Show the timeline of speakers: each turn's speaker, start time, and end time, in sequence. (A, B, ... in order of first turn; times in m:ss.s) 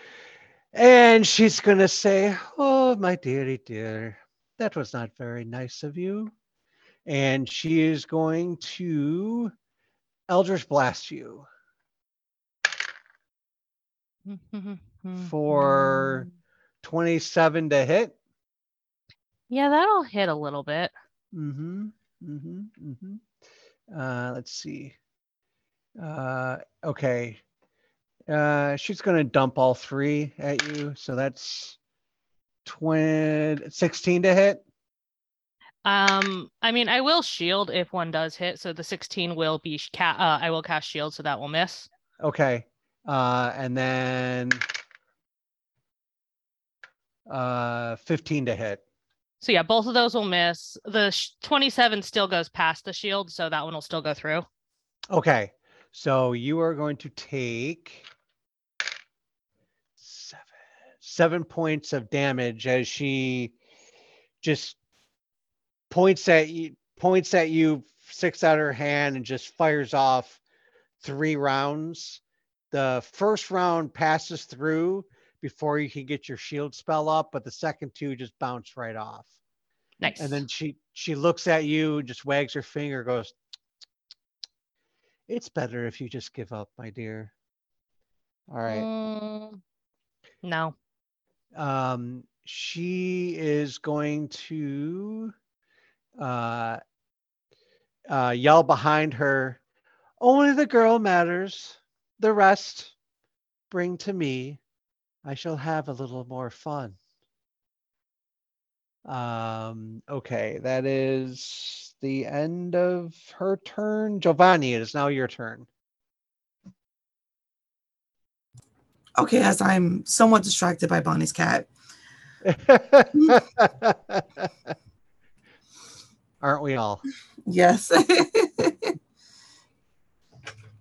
0:00.7-0:06.3 A
0:07.0-0:09.5 A
0:10.3-0:11.4 A
0:14.2-0:16.3 B
0:15.2-0:16.3 A
0:16.8-0:18.1 A
0:19.5-0:20.9 B
0:21.3-0:23.2 A
0:23.9-0:25.0 A
0:26.0-0:27.4 A
0:28.3-0:31.8 A
0:32.6-0:34.6 A
0:35.8-0:41.9 B
0:42.2-0:44.6 A
0:47.3-0:48.8 A
0:49.4-0:54.4 B
0:55.1-0:58.1 A
1:00.0-1:00.5 A
1:01.0-1:03.5 A
1:04.4-1:04.8 A
1:05.9-1:10.4 A
1:11.0-1:19.3 A
1:20.0-1:20.4 B
1:20.2-1:23.3 A
1:25.3-1:27.3 A
1:28.5-1:28.8 A
1:28.7-1:29.6 B
1:30.4-1:30.7 B
1:31.5-1:35.3 A
1:36.2-1:36.8 A
1:38.1-1:39.6 A
1:40.2-1:42.9 A
1:43.7-1:44.6 A
1:45.2-1:47.0 A
1:49.0-1:55.7 A
1:59.2-2:01.7 C
2:02.4-2:04.5 A
2:06.4-2:07.0 A
2:07.4-2:09.0 C